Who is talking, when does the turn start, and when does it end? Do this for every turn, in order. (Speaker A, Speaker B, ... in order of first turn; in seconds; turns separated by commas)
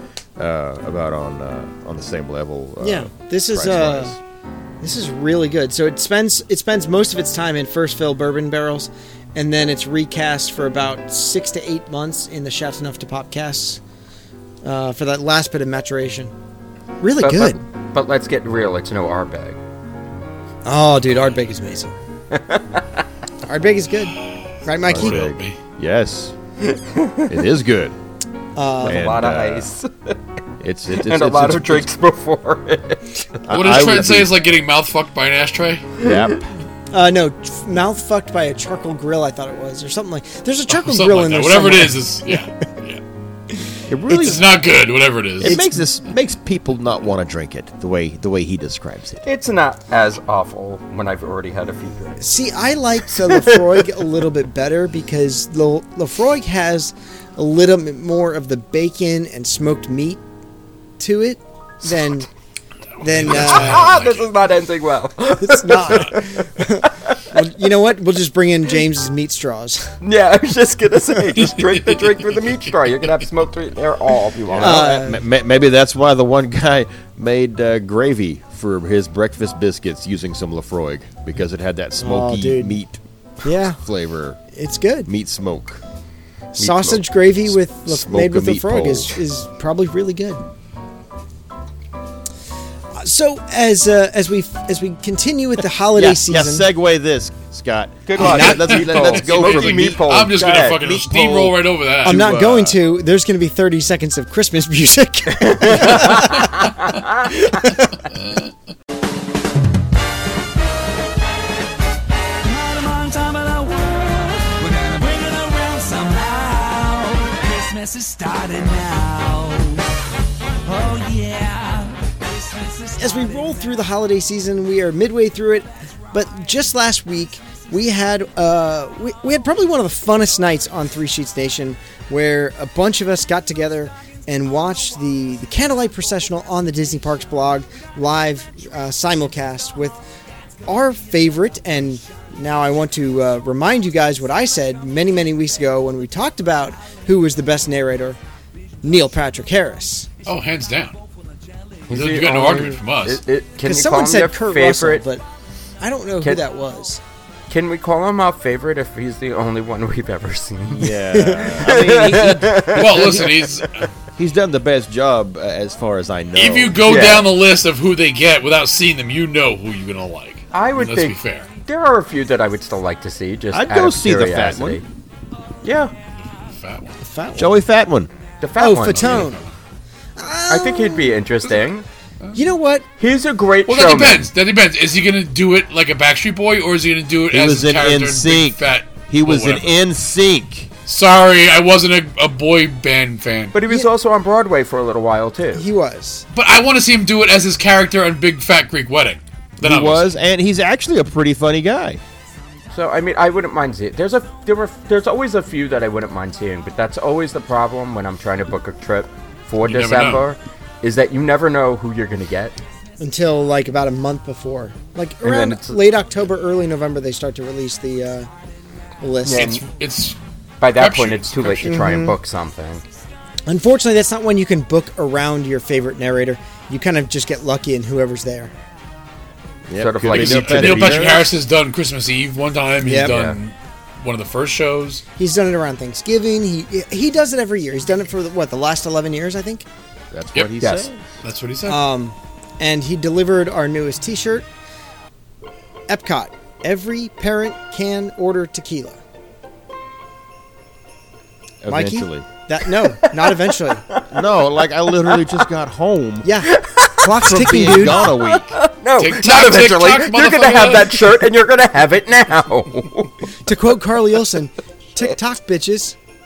Speaker A: 0.4-4.2, Speaker B: 2.8-4.2, Speaker B: 4.8-13.8, Speaker B: 14.6-16.3, Speaker B: 17.0-17.6, Speaker C: 17.2-19.6, Speaker B: 20.6-21.9, Speaker C: 22.3-22.8, Speaker B: 23.4-25.2, Speaker A: 24.9-26.4, Speaker D: 24.9-25.6, Speaker C: 26.6-27.3, Speaker A: 27.3-28.0, Speaker B: 28.6-29.1, Speaker C: 28.8-30.2, Speaker A: 28.8-29.7, Speaker A: 30.6-31.9, Speaker C: 30.9-33.2, Speaker A: 33.5-34.3, Speaker D: 33.5-35.9, Speaker A: 36.0-36.5, Speaker B: 36.9-42.5, Speaker D: 40.7-43.0, Speaker B: 43.5-44.3, Speaker A: 43.9-44.5, Speaker D: 44.1-45.6, Speaker A: 45.4-49.3, Speaker B: 45.4-45.8, Speaker C: 49.2-52.2, Speaker B: 52.2-60.2, Speaker C: 53.3-53.8, Speaker B: 61.0-62.3, Speaker B: 63.0-63.9, Speaker D: 63.0-64.3, Speaker C: 63.3-67.2, Speaker B: 65.4-70.0, Speaker C: 70.0-74.9, Speaker D: 71.5-72.0, Speaker A: 74.5-83.0, Speaker B: 74.6-75.2, Speaker B: 82.0-82.8, Speaker B: 83.4-83.8, Speaker A: 83.8-84.4, Speaker B: 84.5-85.1, Speaker A: 85.1-85.8, Speaker B: 86.6-90.4, Speaker C: 86.6-87.0, Speaker A: 87.8-89.2, Speaker B: 92.9-96.7, Speaker A: 96.0-100.0, Speaker C: 98.1-100.8, Speaker B: 98.2-98.8, Speaker D: 98.2-102.2, Speaker A: 100.7-102.8, Speaker B: 102.0-106.7, Speaker C: 105.5-107.4, Speaker D: 108.1-108.5, Speaker E: 112.4-119.9, Speaker E: 120.7-123.7, Speaker B: 123.0-140.0, Speaker B: 140.7-148.2, Speaker B: 148.8-150.2, Speaker D: 150.3-151.0, Speaker C: 151.9-155.0, Speaker D: 151.9-153.2, Speaker B: 153.6-155.2, Speaker B: 155.8-157.0, Speaker C: 157.5-163.9, Speaker A: 160.7-163.0, Speaker B: 161.2-161.5, Speaker D: 162.7-163.9, Speaker A: 164.2-167.2, Speaker D: 166.3-171.5, Speaker C: 166.8-167.3, Speaker C: 170.5-174.8, Speaker A: 173.5-174.8, Speaker C: 175.6-175.9, Speaker D: 176.2-177.0, Speaker B: 177.0-177.5, Speaker A: 177.4-178.1, Speaker C: 178.4-179.3, Speaker B: 178.6-179.4, Speaker D: 178.8-179.5, Speaker B: 180.2-181.2, Speaker C: 180.5-181.8, Speaker B: 182.3-182.9, Speaker C: 183.0-184.3, Speaker D: 183.7-189.8, Speaker A: 187.3-190.7, Speaker D: 190.9-193.6, Speaker C: 193.5-195.7, Speaker B: 195.5-196.3, Speaker D: 196.3-200.2, Speaker A: 199.6-202.0, Speaker C: 202.7-212.6, Speaker D: 209.6-210.2, Speaker B: 213.0-218.3, Speaker C: 215.2-215.8, Speaker B: 219.0-219.6, Speaker C: 219.2-219.6, Speaker D: 219.3-220.2, Speaker C: 220.6-222.8, Speaker D: 220.8-221.9, Speaker B: 221.6-222.2, Speaker B: 223.5-228.5, Speaker A: 229.7-231.3, Speaker C: 229.8-231.1, Speaker D: 230.1-235.0, Speaker B: 232.8-233.2, Speaker C: 233.0-233.4, Speaker B: 235.2-239.7, Speaker A: 240.1-241.0, Speaker D: 240.3-240.6, Speaker D: 241.2-241.8, Speaker B: 241.7-244.5, Speaker B: 245.9-249.0, Speaker A: 251.6-252.3, Speaker B: 251.7-253.9, Speaker C: 253.0-254.0, Speaker A: 254.1-256.3, Speaker C: 255.1-255.4, Speaker B: 256.2-258.1, Speaker C: 256.4-263.3, Speaker A: 257.2-258.6, Speaker D: 259.0-261.1, Speaker B: 263.4-266.0